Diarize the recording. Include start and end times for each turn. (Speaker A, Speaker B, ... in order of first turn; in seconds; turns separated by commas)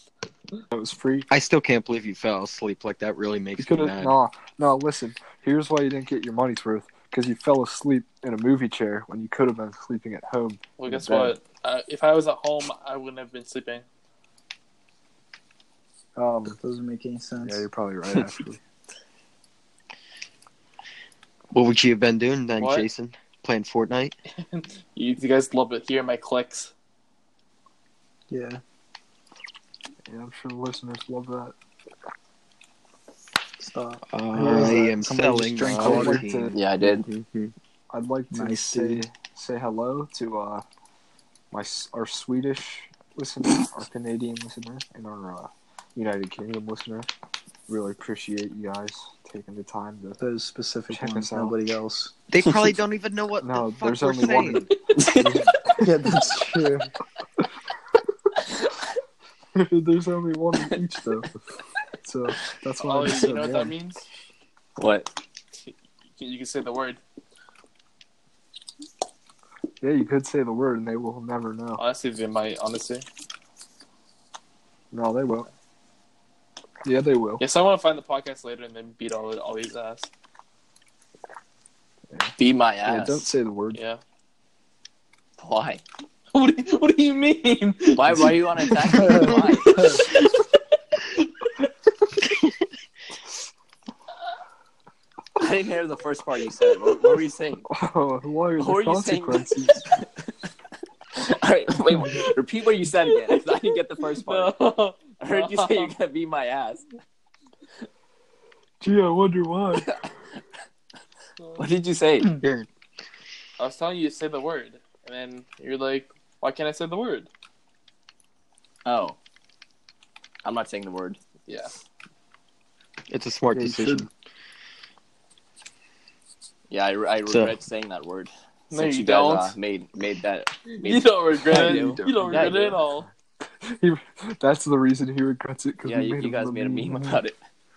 Speaker A: 0.7-1.3, Speaker B: 1.3-4.2, Speaker A: 3.6-11.4, Speaker C: 10.8-13.8, Speaker A: 16.2-16.6, Speaker D: 16.6-17.7, Speaker A: 17.4-18.6, Speaker B: 21.5-24.1, Speaker C: 22.6-22.9, Speaker C: 24.4-26.7, Speaker D: 28.3-28.6, Speaker A: 30.1-31.6, Speaker D: 33.6-36.3, Speaker B: 34.1-37.5, Speaker A: 34.5-34.9, Speaker A: 35.7-36.6, Speaker E: 36.5-37.1, Speaker A: 37.9-40.6, Speaker D: 38.3-39.0, Speaker A: 41.5-47.1, Speaker A: 47.7-50.2, Speaker D: 50.2-52.1, Speaker A: 50.9-51.5, Speaker B: 52.3-54.7, Speaker A: 53.4-56.0, Speaker E: 55.0-55.5, Speaker D: 55.8-56.9, Speaker A: 59.5-61.3, Speaker A: 62.0-63.8, Speaker C: 62.8-64.0, Speaker E: 64.8-65.1, Speaker C: 66.2-67.0, Speaker A: 69.8-71.8, Speaker C: 71.8-73.0, Speaker A: 74.9-75.5, Speaker A: 76.8-77.4, Speaker C: 77.4-80.1, Speaker A: 82.1-83.8, Speaker E: 82.4-83.3, Speaker C: 83.7-84.0, Speaker E: 85.4-85.8, Speaker C: 86.3-90.4, Speaker E: 87.9-90.0, Speaker E: 95.4-97.7, Speaker A: 97.7-99.8, Speaker E: 98.6-99.5, Speaker E: 101.2-104.5, Speaker C: 103.1-103.4, Speaker C: 104.0-105.9, Speaker E: 105.2-106.8, Speaker A: 108.8-109.9, Speaker E: 111.6-112.3, Speaker B: 112.3-112.7, Speaker C: 113.6-117.3, Speaker E: 118.8-119.2, Speaker E: 120.4-121.2, Speaker C: 121.5-121.7, Speaker B: 123.1-124.1, Speaker A: 123.5-124.1, Speaker E: 126.7-132.8, Speaker B: 127.3-127.5, Speaker C: 128.7-129.6, Speaker C: 130.8-133.1, Speaker A: 131.5-132.8, Speaker A: 133.6-137.2, Speaker E: 135.8-137.4